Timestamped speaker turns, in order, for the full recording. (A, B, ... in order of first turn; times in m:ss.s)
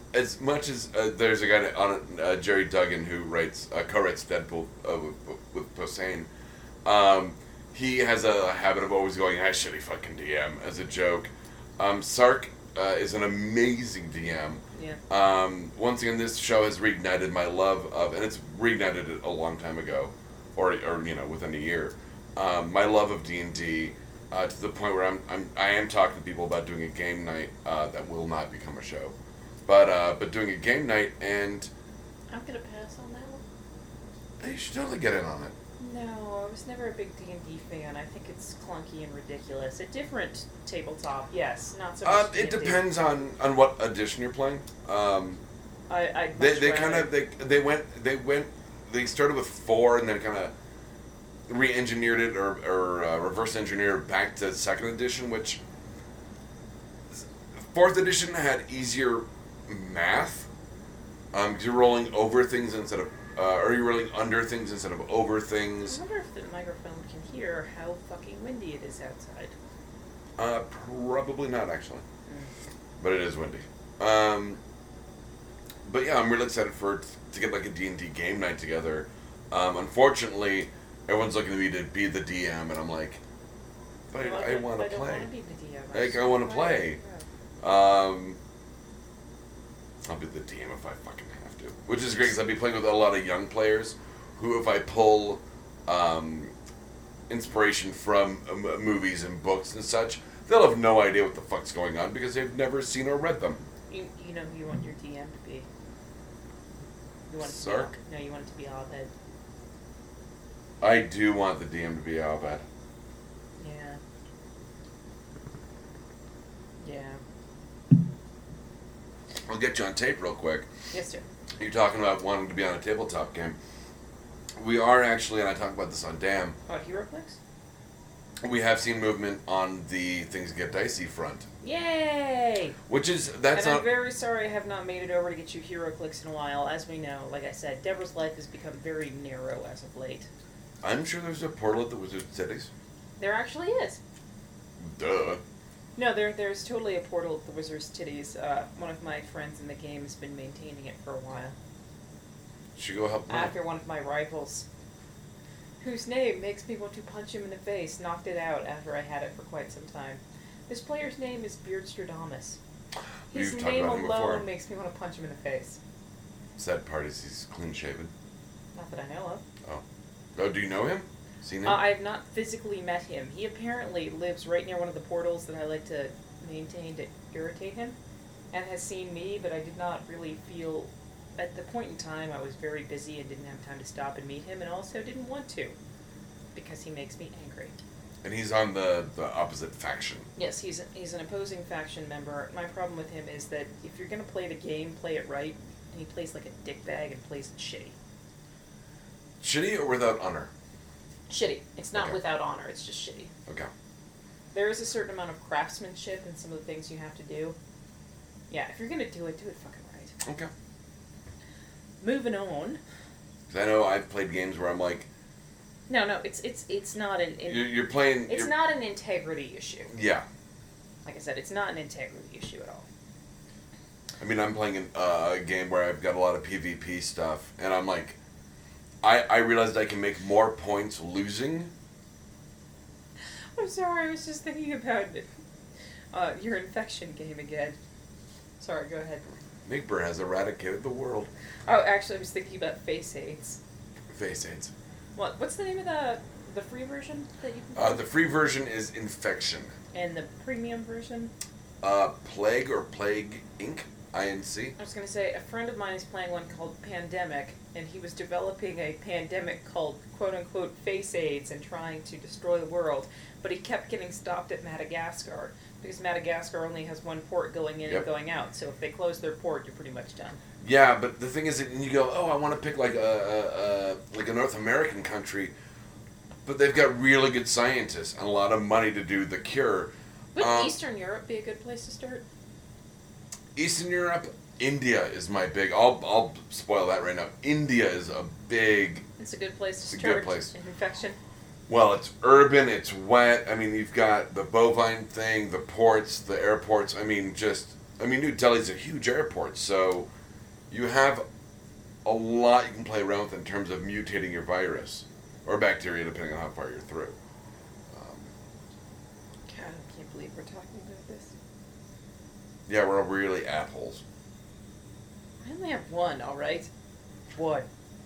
0:00.1-0:06.3 A
0:06.8-0:29.2 A
0:29.7-0:31.7 A
0:32.3-0:33.4 B
0:34.4-0:35.5 A
0:35.8-0:42.8 B
0:42.0-0:45.4 A
0:45.9-0:47.1 B
0:46.4-0:50.5 A
0:51.5-0:55.6 A
0:57.1-1:00.5 A
1:01.3-1:06.0 A
1:05.8-1:09.5 B
1:10.4-1:12.0 A
1:13.0-1:14.6 A
1:15.8-1:23.2 A
1:24.1-1:25.3 A
1:24.2-1:27.2 B
1:25.9-1:27.0 A
1:27.6-1:28.4 A
1:30.0-1:36.5 A
1:37.3-1:43.6 A
1:43.9-1:45.7 B
1:47.3-1:49.1 B
1:47.4-1:47.9 A
1:50.8-1:52.6 A
1:53.6-1:54.0 B
1:56.8-1:57.2 B
1:59.5-2:00.7 A
2:00.9-2:01.2 B
2:01.6-2:03.6 A
2:04.6-2:06.6 A
2:06.7-2:07.4 B
2:08.4-2:11.5 A
2:11.6-2:12.8 B
2:12.9-2:13.9 A
2:13.5-2:20.3 B
2:20.8-2:22.7 A
2:23.2-2:24.0 B
2:24.8-2:25.4 A
2:26.0-2:31.6 B
2:32.8-2:33.5 A
2:33.3-2:34.7 B
2:35.8-2:42.6 B
2:43.3-2:44.5 A
2:43.3-2:45.8 B
2:46.6-2:48.1 A
2:48.8-2:49.4 B
2:50.4-2:51.9 A
2:51.6-2:58.0 B
2:58.5-3:05.8 B
3:06.6-3:07.8 B
3:08.2-3:10.3 A
3:10.4-3:18.0 B
3:19.4-3:20.5 A
3:21.3-3:23.3 B
3:24.5-3:27.6 B
3:28.5-3:30.2 B
3:30.2-3:30.5 A
3:32.0-3:32.8 B
3:33.5-3:35.1 A
3:35.9-3:39.9 B
3:37.5-3:38.5 A
3:39.9-3:40.3 A
3:41.0-3:42.9 B
3:44.2-3:48.2 A
3:49.0-3:51.7 A
3:53.6-3:55.3 B
3:56.1-3:57.8 B
3:58.6-3:59.2 B
3:59.6-4:01.3 A
4:01.7-4:03.6 B
4:04.1-4:04.7 A
4:05.2-4:08.1 B
4:07.8-4:09.8 A
4:09.9-4:11.3 B
4:11.8-4:14.8 A
4:14.8-4:30.4 B
4:30.6-4:35.5 A
4:36.4-4:40.8 A
4:40.4-4:42.2 B
4:43.6-4:49.0 A
4:49.2-4:51.2 B
4:49.9-4:50.5 A
4:51.7-5:00.1 A
5:00.7-5:01.2 A
5:02.0-5:07.2 A
5:07.9-5:08.3 A
5:09.5-5:11.3 B
5:12.7-5:14.0 A
5:15.4-5:16.7 B
5:17.3-5:17.7 B